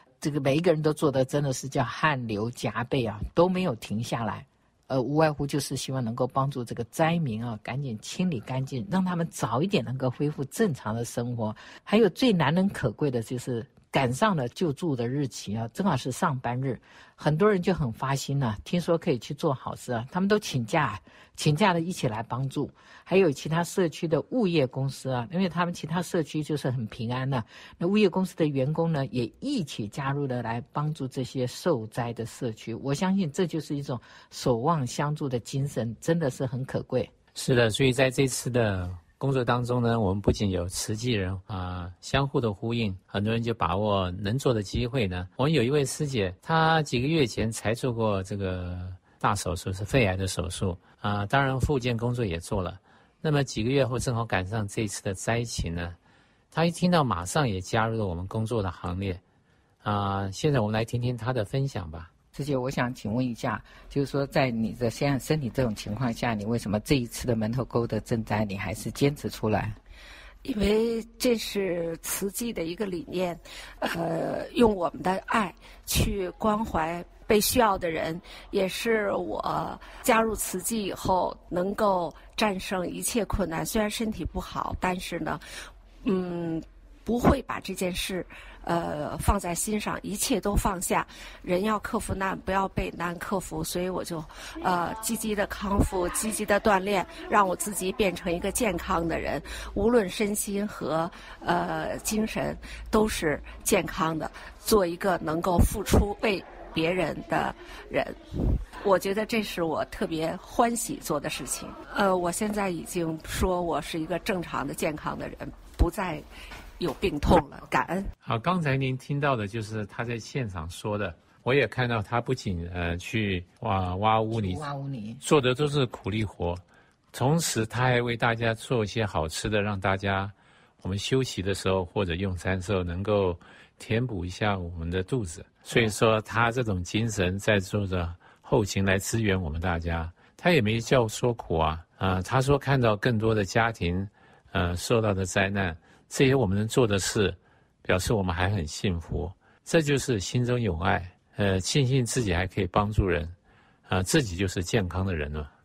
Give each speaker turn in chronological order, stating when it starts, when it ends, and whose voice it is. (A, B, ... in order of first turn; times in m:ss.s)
0:00.2-0:37.1 A
0:37.3-0:56.0 B
0:56.5-0:59.2 B
0:59.8-1:02.1 B
1:02.3-1:09.8 A
1:10.4-1:25.4 C
1:26.0-1:48.2 C
1:48.8-1:56.2 C
1:56.8-1:58.1 C
1:58.2-2:04.6 B
2:04.3-2:05.2 A
2:05.2-2:06.6 B
2:07.1-2:33.3 B
2:33.9-2:35.5 B